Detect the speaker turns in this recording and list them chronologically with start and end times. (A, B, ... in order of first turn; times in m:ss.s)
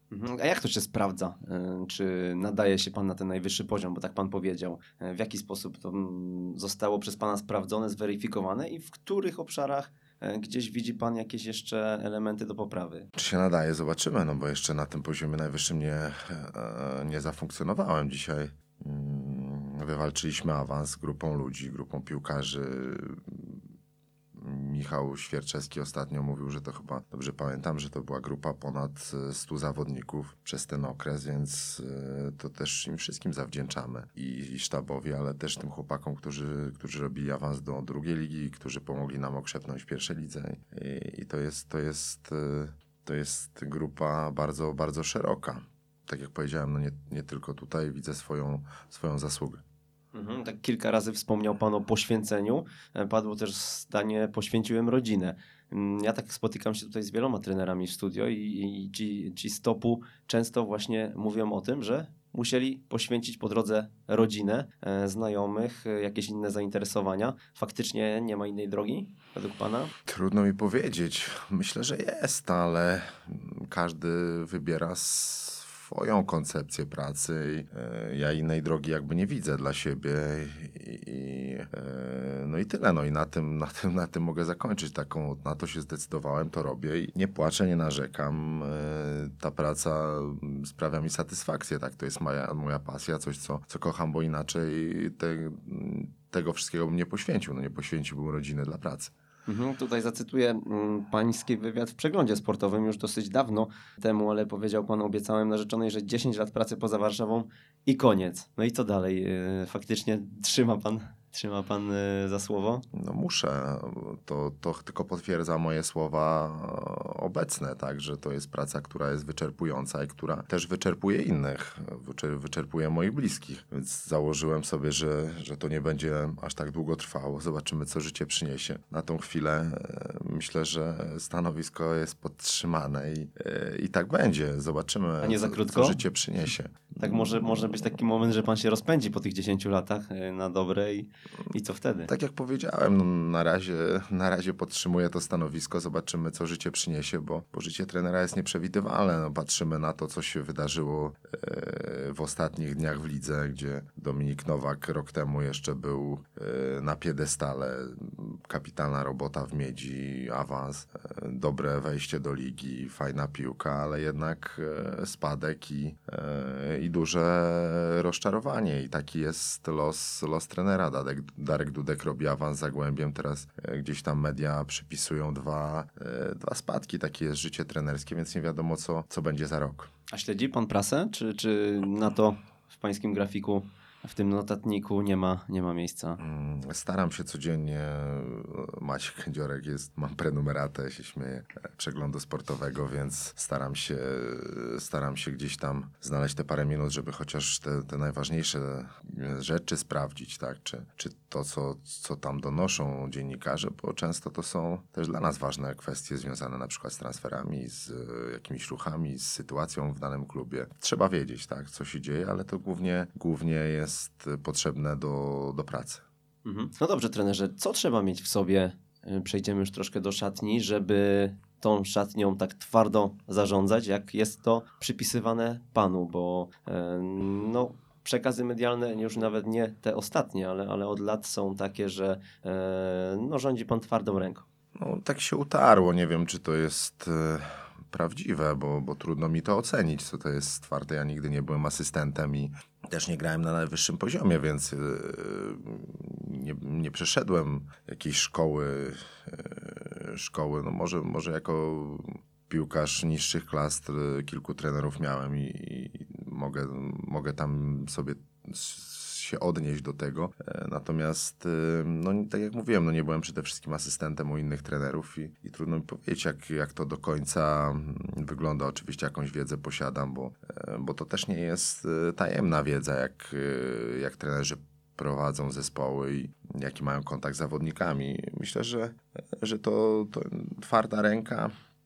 0:00.1-0:13.1 A
0:13.2-0:23.6 B
0:24.4-0:49.6 B
0:50.1-1:09.9 A
1:10.1-1:39.1 B
1:39.5-1:52.8 A
1:52.9-2:16.9 B
2:15.2-2:16.0 A
2:17.0-2:22.1 A
2:22.1-2:59.9 B
3:00.1-3:06.2 A
3:06.2-3:36.0 B
3:36.4-3:54.4 A
3:54.8-4:41.5 B